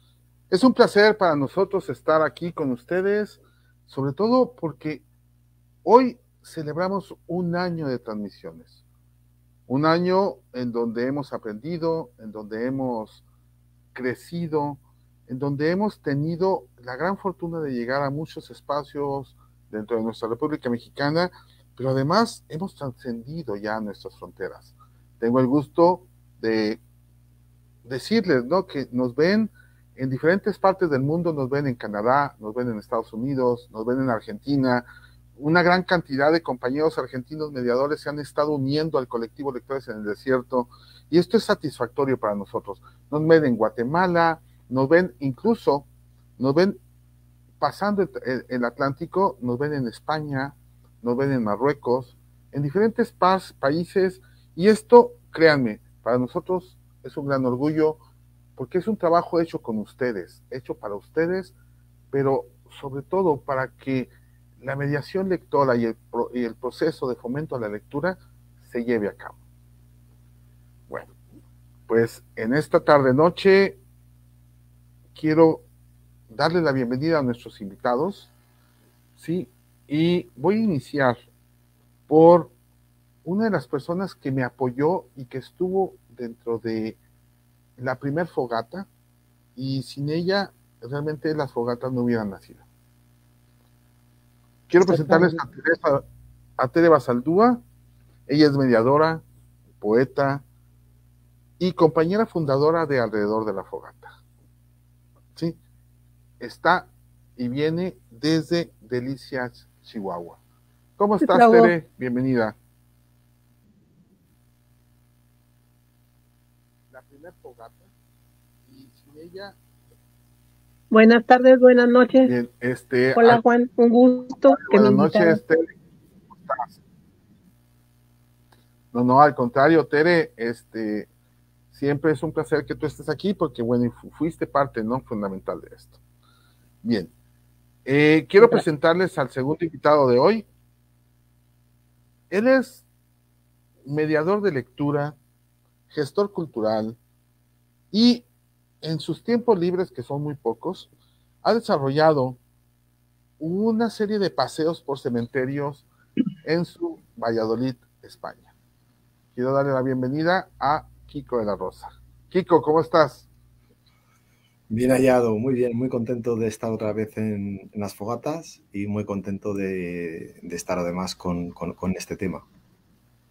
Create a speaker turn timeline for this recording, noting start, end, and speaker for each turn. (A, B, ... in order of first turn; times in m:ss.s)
0:00.5-0:05.0 A
0:05.8-0:08.8 A
0:09.7-0:13.2 A
0:13.9-0:26.8 A
0:27.8-0:34.9 A
0:35.4-0:45.9 A
0:46.4-0:46.8 A
0:47.6-0:58.0 A
0:58.6-1:01.5 A
1:02.1-1:09.4 A
1:11.9-1:13.8 A
1:15.1-1:15.6 A
1:16.3-1:18.3 A
1:19.2-1:21.2 A
1:22.1-1:22.5 A
1:23.2-1:27.0 A
1:27.8-1:28.9 A
1:29.6-1:32.6 A
1:34.7-1:36.0 A
1:34.8-1:35.4 B
1:36.6-1:37.6 A
1:38.3-1:39.2 A
1:39.8-1:40.4 A
1:41.6-1:44.1 A
1:46.4-1:50.4 A
1:51.0-1:52.6 A
1:51.2-1:51.7 B
1:56.9-1:57.9 A
1:58.6-1:59.6 A
2:00.9-2:02.3 B
2:02.2-2:03.4 A
2:03.1-2:05.4 B
2:04.5-2:05.8 A
2:06.3-2:06.8 A
2:08.9-2:11.1 A
2:11.7-2:16.0 A
2:16.8-2:17.1 A
2:17.8-2:20.5 A
2:22.3-2:22.8 A
2:23.8-2:25.2 A
2:25.9-2:27.0 A
2:27.9-2:28.2 A
2:28.8-2:30.9 A
2:31.4-2:32.4 A
2:33.4-2:35.8 A
2:36.4-2:38.5 A
2:39.3-2:43.3 A
2:44.7-2:52.4 C